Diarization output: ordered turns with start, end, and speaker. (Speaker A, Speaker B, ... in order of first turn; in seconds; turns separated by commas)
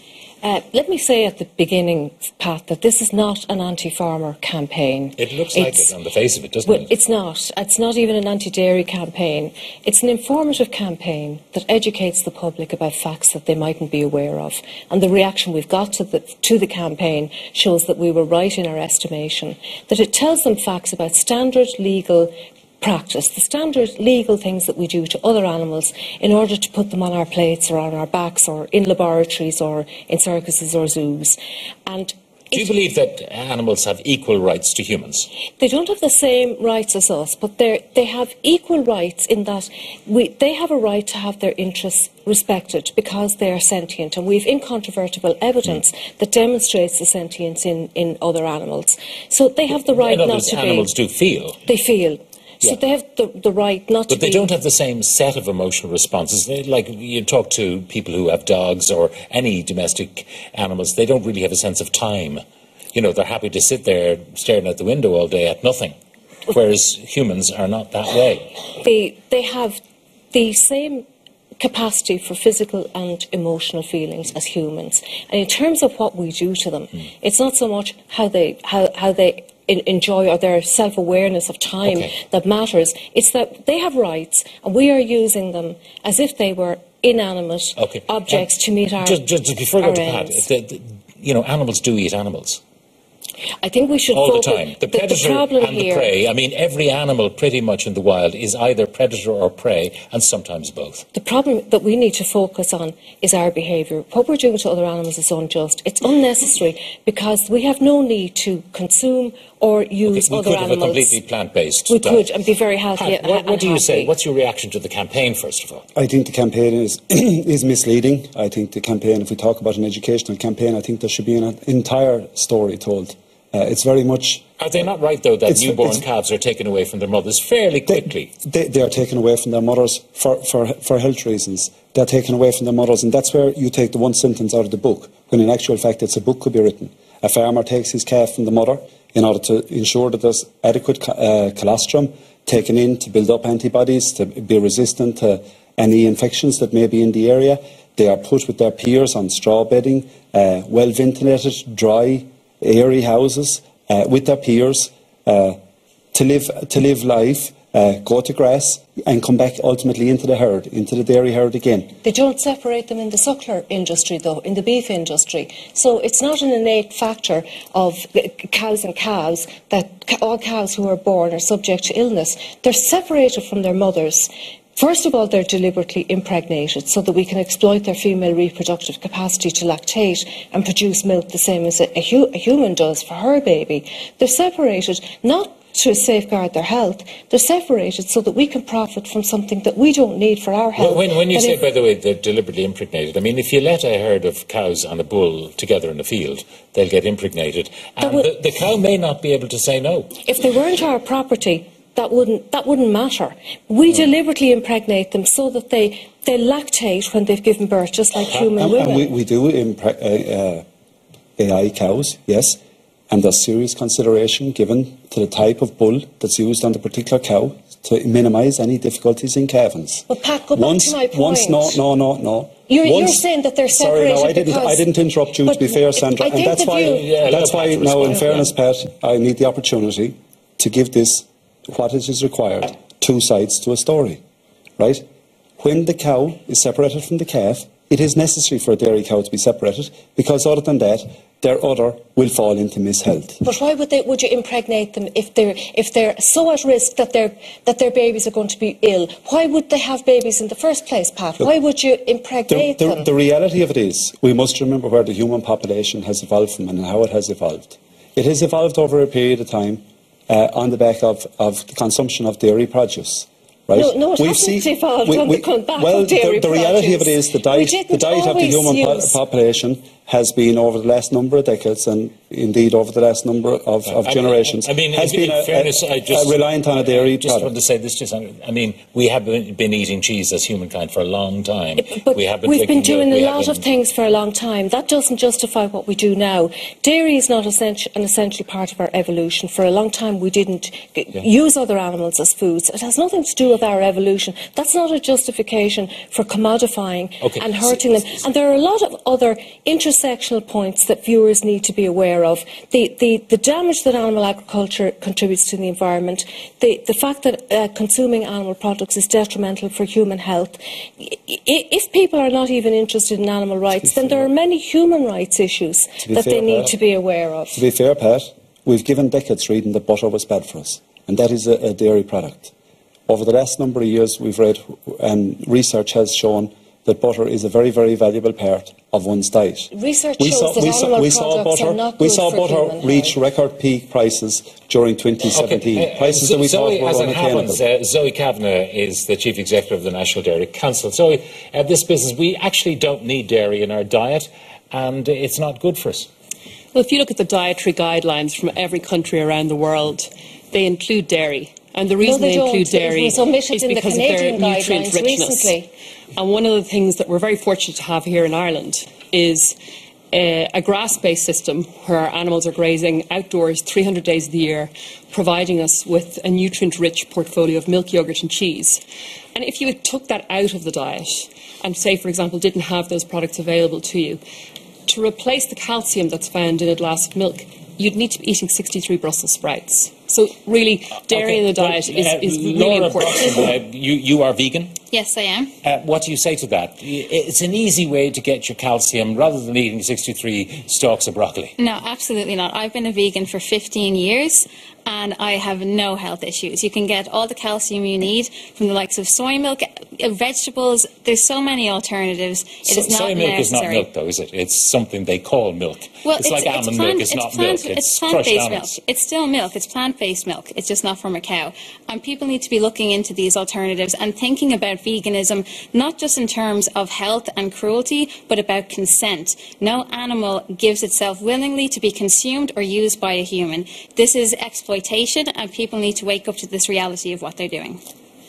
Speaker A: 0.4-5.9, Speaker B: 5.2-6.9, Speaker A: 6.6-32.6, Speaker B: 32.5-35.3, Speaker A: 35.6-50.9, Speaker B: 49.8-51.6, Speaker A: 51.6-54.5, Speaker B: 54.1-62.4, Speaker B: 62.9-65.9, Speaker B: 66.5-68.5, Speaker A: 68.8-69.8, Speaker A: 70.3-71.0, Speaker A: 71.6-89.2, Speaker B: 81.8-82.1, Speaker B: 87.8-88.5, Speaker B: 89.0-92.6, Speaker A: 89.8-90.4, Speaker A: 93.6-96.1, Speaker B: 94.1-101.0, Speaker A: 101.1-111.2, Speaker B: 110.1-112.3, Speaker A: 111.9-114.1, Speaker B: 113.0-115.8, Speaker C: 116.0-124.4, Speaker B: 124.6-128.3, Speaker C: 125.5-126.0, Speaker C: 127.9-155.6, Speaker C: 156.1-161.9, Speaker A: 162.0-191.6, Speaker B: 190.8-200.1, Speaker A: 198.0-198.3, Speaker A: 200.2-209.1, Speaker C: 208.3-210.6, Speaker C: 211.4-212.6, Speaker C: 213.1-234.2, Speaker A: 220.1-221.8, Speaker A: 222.7-224.9, Speaker A: 225.4-227.1, Speaker B: 226.7-228.5, Speaker C: 234.8-235.0, Speaker C: 235.6-243.4, Speaker A: 243.4-253.1, Speaker C: 252.5-277.5, Speaker A: 263.7-269.2, Speaker B: 273.9-283.6, Speaker A: 281.8-317.6, Speaker B: 297.2-298.2, Speaker C: 316.0-316.8, Speaker C: 317.6-322.5, Speaker C: 323.1-337.6, Speaker A: 329.7-333.2, Speaker B: 335.3-346.1, Speaker D: 346.7-353.1, Speaker A: 352.0-355.7, Speaker D: 353.6-355.5, Speaker D: 356.1-359.5, Speaker D: 360.1-368.8, Speaker D: 369.4-374.2, Speaker D: 374.9-383.1, Speaker B: 381.1-384.8, Speaker E: 384.9-385.5, Speaker B: 385.6-391.5, Speaker E: 391.6-403.9, Speaker B: 402.6-408.7, Speaker E: 406.0-427.8